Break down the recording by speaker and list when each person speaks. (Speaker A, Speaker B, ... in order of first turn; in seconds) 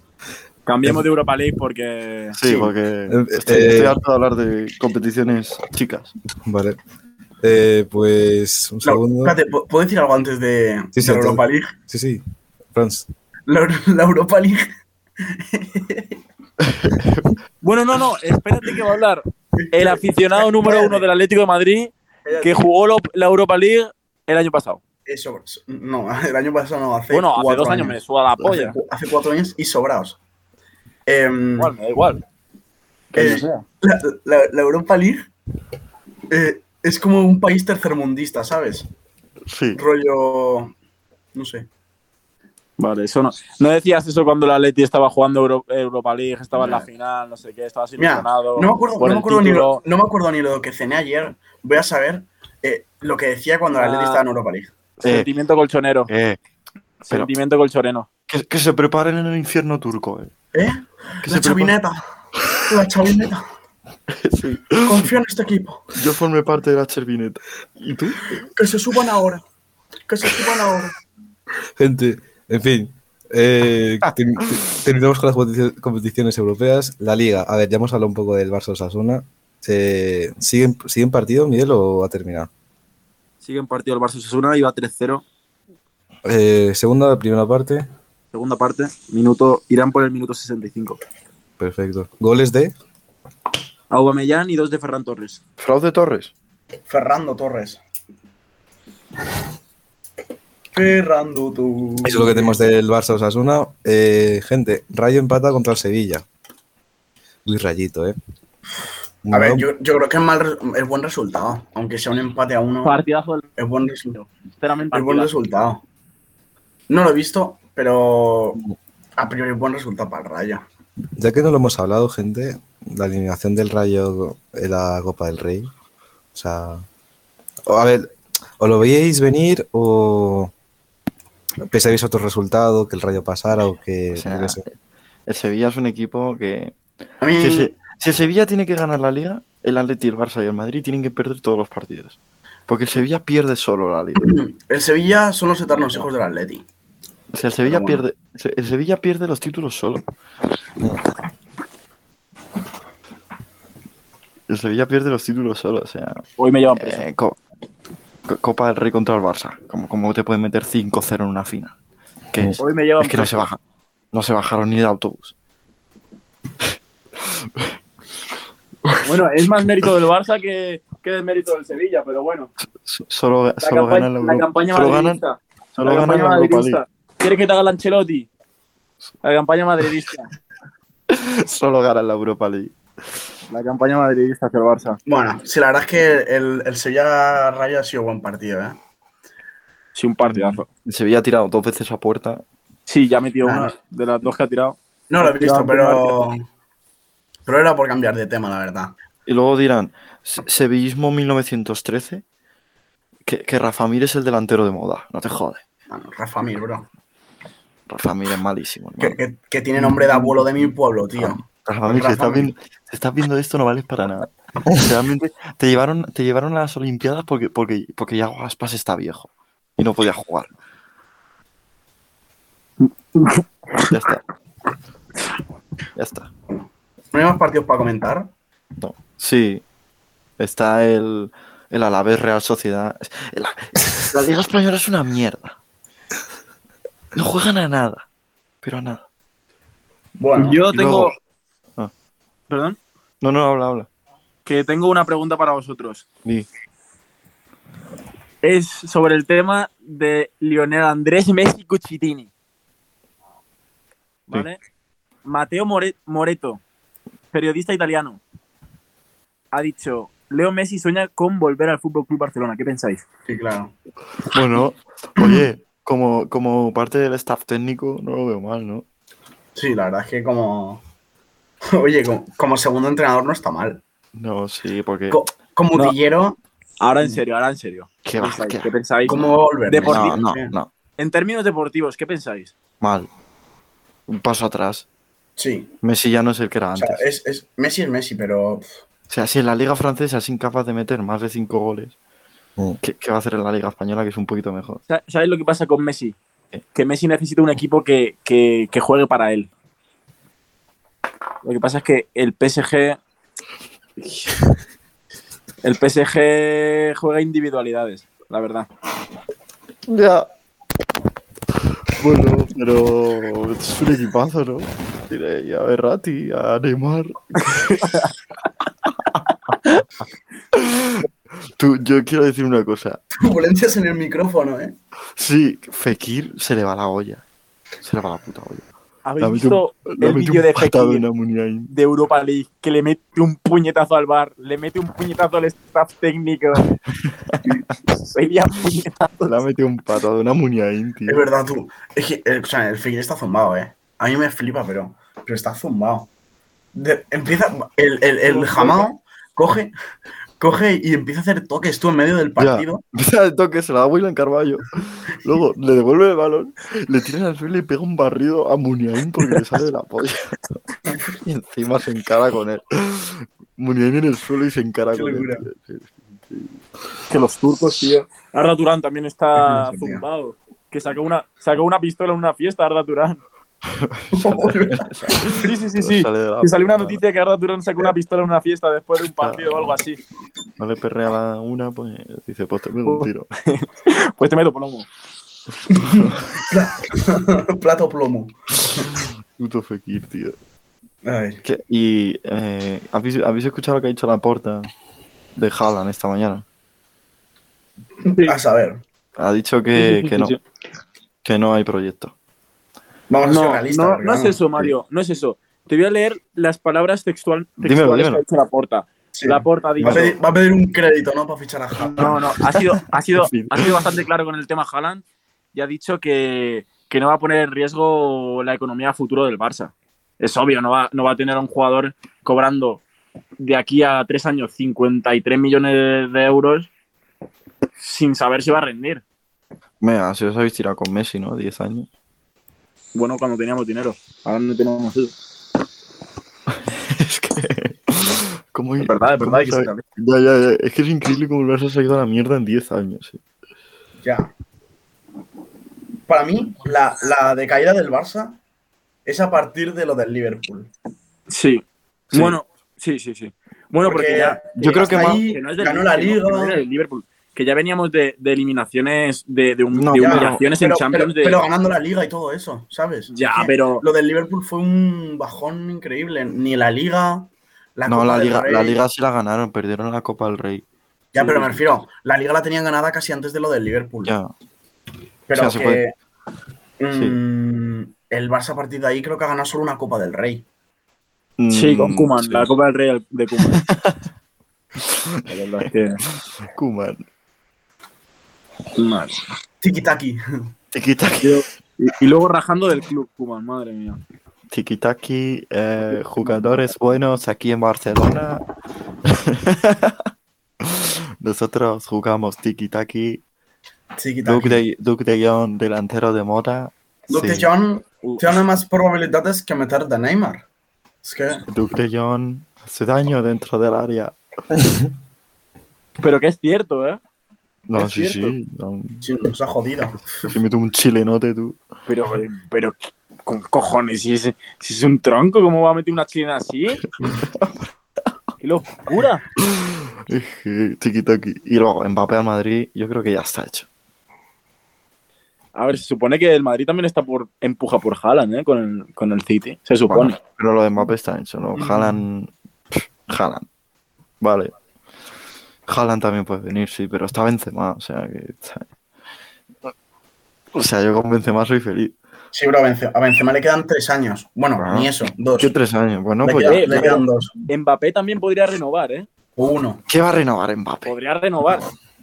Speaker A: 0.7-2.4, 17.6-24.8, 27.1-28.8, 31.6-32.2, 33.2-33.6, 42.8-49.8, 53.7-54.2, 55.0-56.1, 57.0-58.1, 83.4-85.2, 88.3-91.0, 93.9-95.4, 112.8-113.5, 114.1-115.3, 156.4-157.0, 162.6-163.5, 169.0-172.5, 173.6-178.3, 179.2-180.3, 183.5-185.0, 189.9-190.7, 192.9-196.2, 223.2-223.9, 240.3-241.1, 242.5-242.8, 244.4-246.0, 248.4-252.3, 254.3-254.6, 255.2-256.6, 257.3-258.2, 259.5-263.0, 276.8-280.2, 281.0-282.5, 294.9-296.1, 296.7-299.5, 301.4-303.0, 305.6-308.7, 317.4-318.1, 329.0-331.0, 331.7-336.7, 338.1-339.3, 348.2-348.9, 367.1-373.2, 375.3-380.0, 382.9-384.9, 398.1-398.4, 399.7-400.4, 403.2-410.1, 412.0-415.0, 415.5-422.8, 423.4-426.7, 427.8-429.0, 432.9-435.1, 438.8-439.8, 451.3-461.4, 463.1-463.8, 471.2-471.6, 481.5-483.6, 485.3-486.0, 488.8-489.2, 491.2-494.0, 495.9-496.4, 516.0-517.0, 517.7-518.3, 521.9-526.8, 528.4-529.2, 535.5-540.2, 556.5-559.0, 560.9-561.7
Speaker B: 2.3-6.1, 16.6-17.4, 33.1-33.4, 39.5-39.8, 55.0-55.3, 56.1-56.4, 58.3-60.3, 61.2-61.8, 64.1-65.1, 65.9-68.3, 95.6-96.3, 134.1-134.7, 135.3-136.8, 137.3-142.2, 142.7-144.3, 147.3-150.0, 154.5-156.2, 156.7-157.4, 158.3-161.7, 162.3-163.6, 164.1-165.3, 167.2-167.7, 172.8-175.2, 175.7-176.8, 181.1-182.8, 190.2-192.4, 199.2-202.2, 203.2-205.6, 207.9-209.2, 210.1-210.4, 211.2-220.5, 223.8-224.2, 225.9-226.3, 228.8-229.6, 230.4-235.6, 237.1-238.0, 238.6-239.0, 240.6-241.1, 243.2-243.9, 264.3-268.8, 274.1-275.2, 278.0-278.7, 279.8-280.7, 282.8-283.1, 284.1-284.9, 285.8-287.0, 289.1-291.9, 292.8-294.8, 309.9-310.3, 311.9-317.8, 320.5-323.0, 325.1-327.2, 327.8-328.6, 329.2-331.7, 337.0-337.6, 339.2-341.3, 352.4-360.4, 361.2-366.6, 373.6-377.0, 379.2-379.8, 380.6-383.3, 388.8-390.4, 391.4-394.7, 395.4-396.4, 399.2-400.4, 401.2-402.1, 407.6-408.2, 409.8-410.1, 411.9-414.0, 429.8-431.9, 436.5-443.2, 452.1-452.4, 454.6-455.2, 459.7-460.4, 467.9-470.6, 474.0-474.3, 475.3-475.8, 476.9-477.2, 481.4-482.5, 483.4-484.0, 484.8-485.7, 486.4-487.0, 490.7-491.4, 494.5-498.4, 499.1-500.1, 500.6-503.2, 504.2-507.5, 511.5-514.1, 517.7-519.1, 520.2-521.6, 527.2-527.7, 529.4-533.7, 539.9-543.5, 544.2-544.5, 545.7-548.7, 550.5-552.0, 554.6-557.0, 559.9-561.0
Speaker C: 3.1-4.0, 6.4-6.8, 7.4-9.3, 10.9-12.2, 12.7-13.1, 71.8-82.5, 86.2-87.9, 91.6-92.7, 102.0-106.2, 107.5-108.2, 109.2-109.7, 121.2-125.7, 126.3-126.8, 127.7-130.5, 131.7-134.6
Speaker D: 8.8-11.7, 13.5-14.7, 15.2-16.2, 19.6-21.1, 22.2-22.6, 25.1-30.2, 31.1-31.7, 33.1-35.3, 36.3-38.9, 39.8-40.7, 41.3-41.7, 48.0-54.7, 60.5-62.0, 62.7-63.4, 64.8-65.8, 68.4-69.4, 70.1-70.9, 96.9-97.8, 100.7-102.6, 109.3-113.0, 113.6-114.2, 114.9-115.8, 116.9-118.6, 119.2-120.6, 137.2-137.7, 144.2-146.6, 147.6-148.0, 185.1-188.8, 193.4-193.7, 195.1-196.4, 197.4-198.9, 205.9-206.9, 209.0-212.5, 227.1-228.3, 240.2-240.6, 263.3-263.7, 269.6-270.8, 271.7-273.8, 275.1-276.4, 279.0-280.5, 285.4-285.7, 286.8-288.8, 323.1-324.8, 341.1-346.1, 346.7-349.7, 350.4-352.8, 364.9-365.4, 369.4-370.0, 374.1-374.9, 385.7-388.9, 391.0-391.4, 398.2-398.8, 403.1-404.7, 409.1-412.2, 444.0-444.3, 446.1-448.4, 449.1-450.7, 453.8-456.6, 459.9-468.8, 471.1-474.1, 475.3-475.9, 476.8-480.4, 489.6-490.5, 504.0-504.6, 507.1-510.4, 511.0-511.4, 519.0-520.3, 541.6-542.0, 552.3-555.5, 556.2-557.3, 559.4-559.8